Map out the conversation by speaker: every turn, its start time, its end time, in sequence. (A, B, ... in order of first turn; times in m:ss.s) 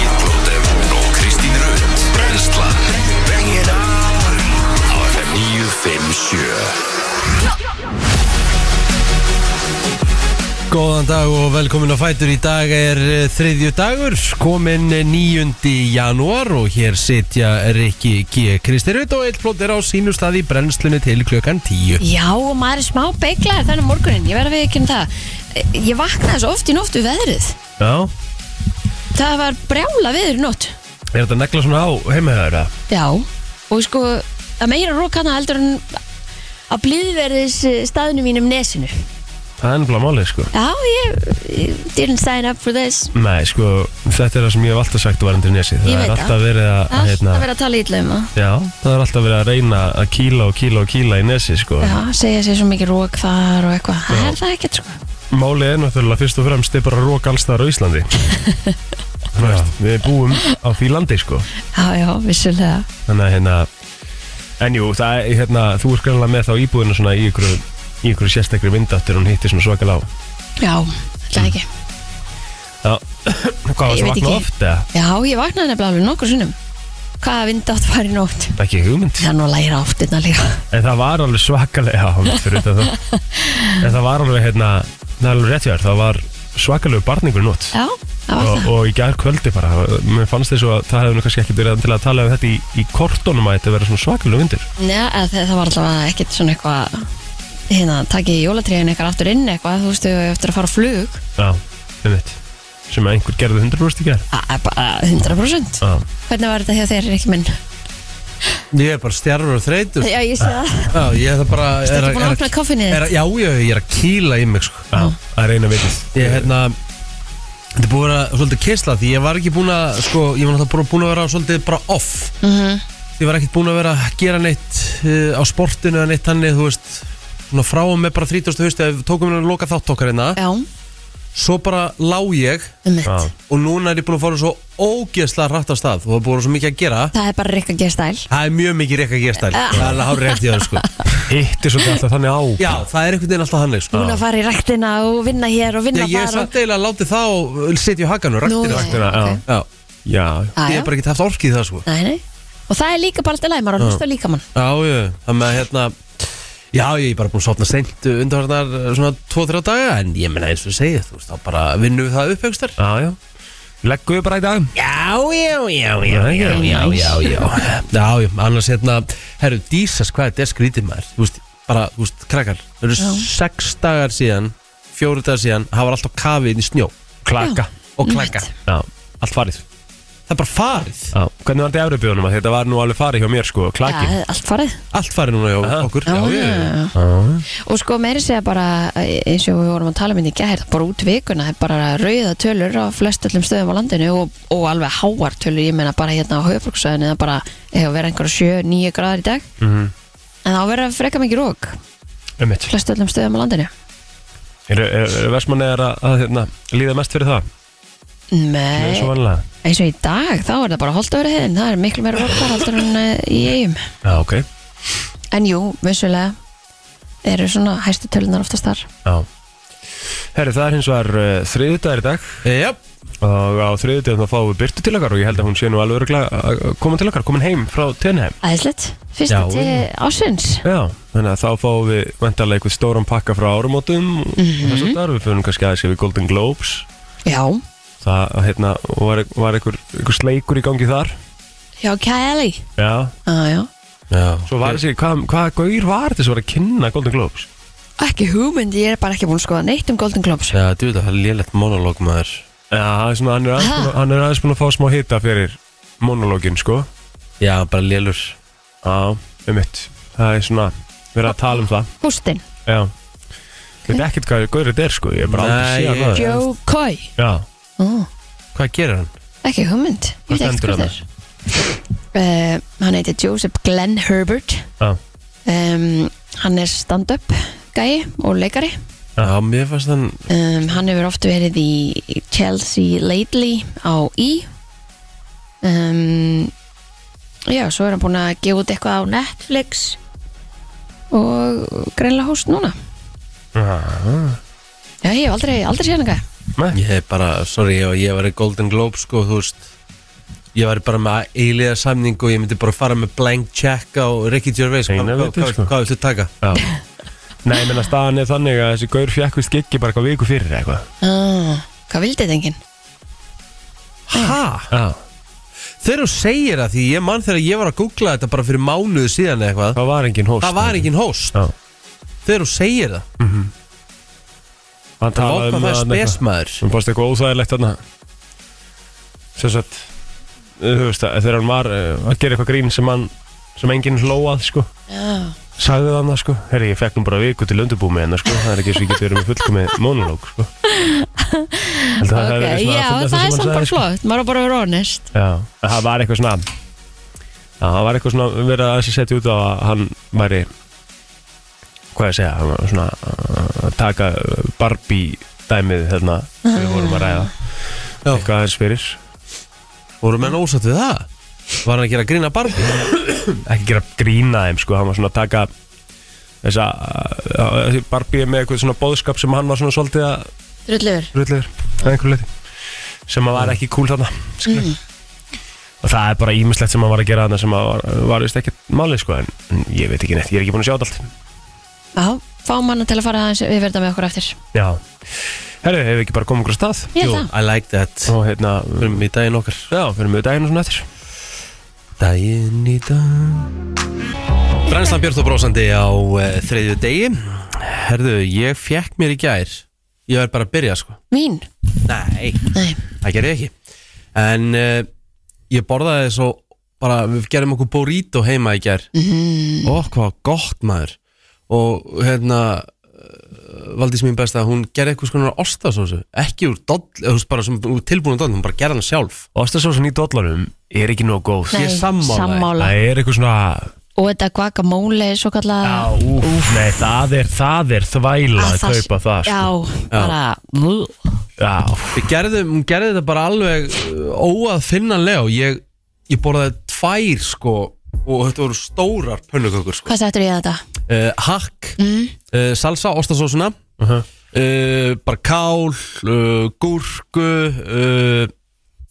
0:00.9-0:02.8 A
0:04.9-0:06.7 A
0:10.7-0:22.0 A
0:22.0-0:27.6 B
0:27.8-0:28.1 C
0:29.1-0:30.8 B
0:31.1-0:32.7 C
0:32.9-0:36.0 B
0:36.7-0:39.0 B
0:39.6-0:40.5 C
0:40.5-0:43.1 B
0:43.1-0:47.4 C
0:45.8-0:46.4 B
0:46.9-0:48.3 B
0:48.4-0:52.0 C
0:51.8-0:55.0 B
0:54.1-0:54.4 C
0:55.3-0:58.3 C
0:58.4-0:58.7 B
0:59.3-1:01.5 C
0:59.4-0:59.7 A
1:01.7-1:02.9 B
1:03.1-1:03.7 C
1:04.6-1:10.1 C
1:10.6-1:11.7 B
1:12.8-1:14.8 C
1:13.9-1:16.6 B
1:17.2-1:18.6 B
1:18.6-1:19.3 C
1:19.2-1:20.6 B
1:20.7-1:22.9 C
1:22.8-1:23.8 B
1:23.8-1:27.7 C
1:27.7-1:28.7 B
1:28.4-1:34.7 C
1:34.8-1:37.1 B
1:37.7-1:41.2 B
1:41.4-1:42.4 C
1:42.9-1:44.2 C
1:44.3-1:47.6 B
1:45.8-1:46.0 C
1:48.7-1:50.1 A
1:50.0-1:51.0 B
1:50.9-1:54.9 A
1:51.8-1:53.1 B
1:54.9-1:56.5 C
1:56.1-1:56.8 A
1:57.7-2:02.3 A
2:02.4-2:02.8 B
2:03.2-2:10.4 A
2:10.4-2:10.6 B
2:11.3-2:12.7 A
2:12.8-2:13.3 B
2:13.0-2:13.3 C
2:13.5-2:17.1 A
2:17.1-2:18.3 B
2:18.3-2:20.9 A
2:19.5-2:21.2 B
2:21.2-2:22.8 C
2:22.6-2:24.1 A
2:23.9-2:26.5 B
2:23.9-2:24.2 C
2:25.9-2:29.7 A
2:28.4-2:29.4 B
2:28.7-2:29.4 C
2:30.0-2:30.5 C
2:30.6-2:30.9 B
2:30.6-2:31.8 A
2:31.8-2:34.4 B
2:34.5-2:42.8 A
2:42.8-2:43.2 C
2:43.8-2:44.7 C
2:44.7-2:56.9 A
2:46.0-2:47.4 C
2:46.4-2:47.4 B
2:53.0-2:53.2 B
2:57.2-2:57.7 C
2:57.4-2:58.5 B
2:58.0-2:58.5 A
2:58.7-2:59.6 C
3:00.3-3:01.1 A
3:01.1-3:04.2 C
3:03.8-3:04.8 B
3:04.9-3:06.7 A
3:05.6-3:05.9 C
3:06.0-3:06.9 B
3:06.9-3:07.4 C
3:07.6-3:19.5 B
3:19.6-3:19.9 C
3:20.4-3:21.8 B
3:22.4-3:22.7 C
3:22.7-3:23.7 B
3:24.7-3:27.5 C
3:28.3-3:29.1 B
3:28.8-3:29.4 C
3:29.6-3:33.8 B
3:34.0-3:34.5 C
3:35.3-3:36.4 B
3:37.2-3:38.9 B
3:40.3-3:42.4 C
3:42.4-3:42.8 A
3:43.2-3:48.4 C
3:48.4-3:50.6 B
3:49.3-3:49.8 A
3:50.6-3:56.9 C
3:54.4-3:55.0 B
3:57.2-3:57.6 B
3:58.0-4:01.2 C
4:01.8-4:02.6 B
4:02.8-4:03.1 C
4:03.2-4:03.7 B
4:04.1-4:04.8 A
4:04.5-4:07.5 C
4:08.0-4:10.6 B
4:10.5-4:12.4 A
4:12.7-4:16.9 C
4:13.6-4:13.9 B
4:17.4-4:18.4 A
4:18.8-4:21.9 C
4:22.0-4:22.4 B
4:22.6-4:22.9 C
4:23.8-4:26.2 C
4:25.3-4:26.4 A
4:26.1-4:27.1 B
4:27.2-4:27.4 C
4:27.8-4:28.1 B
4:28.5-4:29.1 A
4:29.4-4:31.0 B
4:30.3-4:30.9 C
4:32.1-4:34.7 B
4:35.4-4:38.8 B
4:39.2-4:40.2 A
4:40.3-4:44.5 B
4:45.6-4:46.5 B
4:47.4-4:50.0 B
4:51.1-4:52.7 B
4:53.5-4:54.4 C
4:55.0-4:56.2 B
4:56.7-4:59.6 A
5:00.5-5:06.3 A
5:04.9-5:05.7 C
5:06.4-5:06.7 C
5:07.4-5:10.9 C
5:11.0-5:12.6 B
5:14.1-5:14.7 A
5:14.7-5:15.0 C
5:15.8-5:19.8 A
5:19.7-5:21.5 C
5:20.4-5:21.4 A
5:22.2-5:23.0 A
5:23.2-5:23.5 C
5:25.0-5:27.8 C
5:25.1-5:26.6 A
5:29.4-5:29.9 C
5:30.6-5:34.7 C
5:34.9-5:35.3 B
5:35.6-5:40.5 C
5:40.6-5:45.1 B
5:42.0-5:43.8 C
5:45.1-5:46.5 C
5:47.6-5:50.5 C
5:51.9-5:57.3 C
5:56.4-5:57.3 B
5:58.1-5:59.0 C
6:00.0-6:01.1 A
6:01.6-6:03.1 A
6:03.4-6:05.5 C
6:06.4-6:10.3 C
6:10.7-6:11.1 B
6:11.1-6:12.3 C
6:13.1-6:14.7 C
6:14.4-6:14.8 B
6:15.8-6:21.1 C
6:22.0-6:24.4 B
6:24.5-6:24.8 C
6:25.6-6:27.2 C
6:26.9-6:27.3 B
6:27.0-6:28.2 A
6:28.1-6:29.0 C
6:28.8-6:29.7 A
6:29.7-6:30.8 C
6:32.0-6:33.6 A
6:34.6-6:41.0 A
6:41.1-6:41.5 B
6:41.8-6:43.5 A
6:42.5-6:42.8 B
6:44.1-6:44.9 A
6:45.5-6:48.9 A
6:48.9-6:49.7 B
6:49.6-6:51.0 A
6:51.5-6:59.2 A
6:59.3-7:01.6 C
7:01.5-7:02.7 B
7:01.5-7:02.5 A
7:02.6-7:03.7 C
7:04.0-7:06.8 B
7:05.6-7:09.5 C
7:08.4-7:10.9 B
7:11.4-7:12.1 C
7:11.9-7:19.9 A
7:19.9-7:20.6 B
7:20.9-7:21.8 A
7:21.8-7:22.1 B
7:22.3-7:23.6 A
7:23.8-7:24.0 C
7:24.3-7:28.3 A